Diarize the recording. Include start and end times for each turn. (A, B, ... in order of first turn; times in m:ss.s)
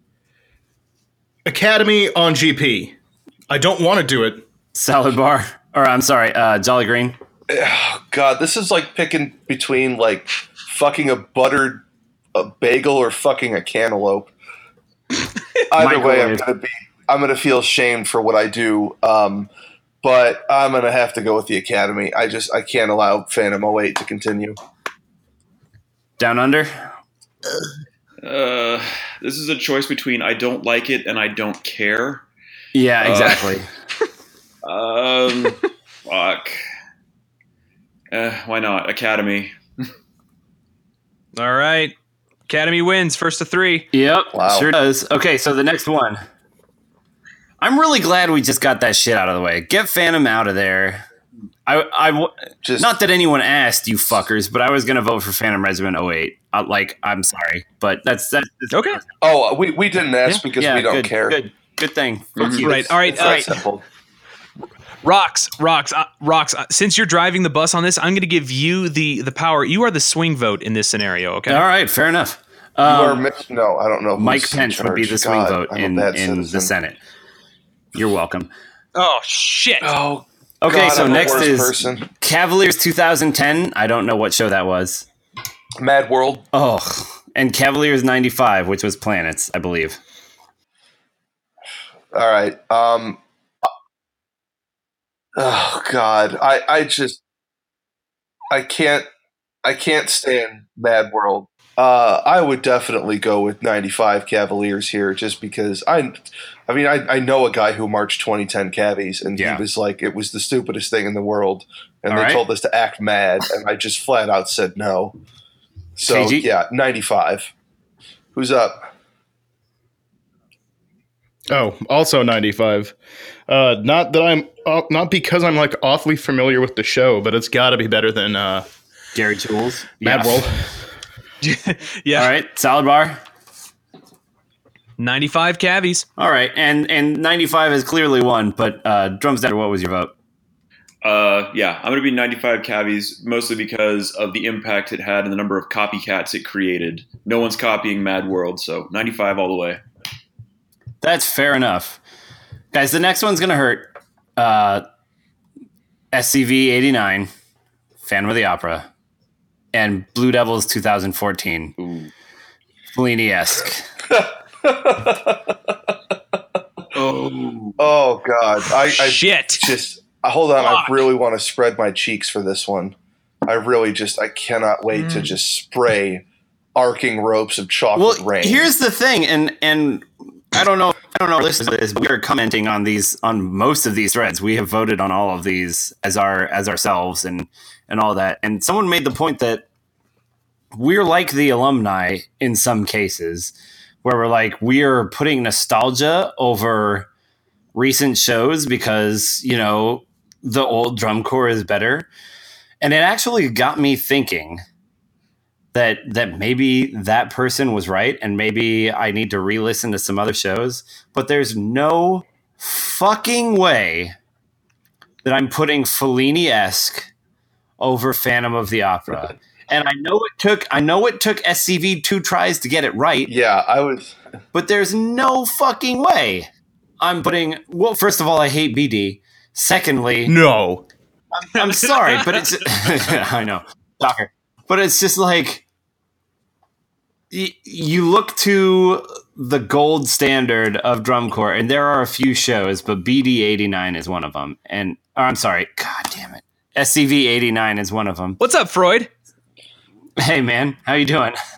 0:01.5-0:03.0 A
0:03.5-0:04.4 A
0:04.7-0:07.2 B
0:07.5-0:14.3 C
0:15.7-0:19.5 C
0:15.7-0:16.4 B
0:20.0-0:24.6 C
0:26.2-0:26.9 B
0:28.2-0:32.2 D
0:32.8-0:33.7 B
0:33.0-0:33.5 D
0:34.6-0:36.6 D
0:38.1-0:39.9 D
0:41.4-0:41.9 E
0:42.5-0:43.9 E
0:43.9-0:46.2 B
0:44.3-0:44.7 C
0:47.6-0:51.1 B
0:51.7-0:59.0 B
0:52.6-0:52.9 C
0:58.7-0:59.0 E
0:59.2-1:01.4 C
1:00.6-1:03.6 B
1:02.4-1:02.7 D
1:02.6-1:03.6 E
1:02.7-1:03.8 C
1:05.0-1:11.6 E
1:11.5-1:13.2 B
1:12.8-1:16.7 C
1:14.2-1:17.0 B
1:17.9-1:18.5 B
1:19.0-1:20.0 E
1:19.8-1:22.1 C
1:20.6-1:25.0 B
1:20.9-1:21.5 E
1:25.8-1:26.5 C
1:26.5-1:30.0 B
1:32.1-1:33.2 C
1:35.4-1:37.2 C
1:38.5-1:39.1 C
1:39.6-1:55.2 C
1:49.4-1:49.6 B
1:52.1-1:52.4 B
1:56.0-1:57.5 C
1:56.0-1:56.5 B
1:58.3-1:58.8 C
2:01.5-2:03.0 A
2:03.5-2:08.7 A
2:09.2-2:10.4 B
2:10.0-2:10.8 A
2:11.4-2:12.3 E
2:12.1-2:13.2 B
2:15.0-2:16.1 E
2:16.2-2:20.1 B
2:21.0-2:29.8 D
2:31.0-2:32.0 B
2:32.7-2:34.8 B
2:36.1-2:37.3 B
2:38.0-2:38.9 B
2:39.7-2:41.8 B
2:41.8-2:42.1 D
2:42.9-2:43.9 B
2:44.1-2:45.6 C
2:47.0-2:47.9 D
2:47.8-2:53.0 C
2:48.8-2:49.7 E
2:50.6-2:51.1 E
2:53.5-2:56.2 C
2:56.8-2:58.7 C
2:58.0-3:09.6 B
3:10.7-3:17.1 B
3:17.7-3:22.1 B
3:22.8-3:24.6 B
3:25.7-3:34.2 B
3:35.2-3:37.1 B
3:37.8-3:43.3 B
3:43.3-3:44.2 C
3:44.5-3:46.5 B
3:47.0-3:50.3 B
3:50.3-3:50.9 A
3:51.5-3:55.6 B
3:52.0-3:52.4 E
3:57.3-4:08.4 B
4:08.4-4:09.1 E
4:10.2-4:11.4 B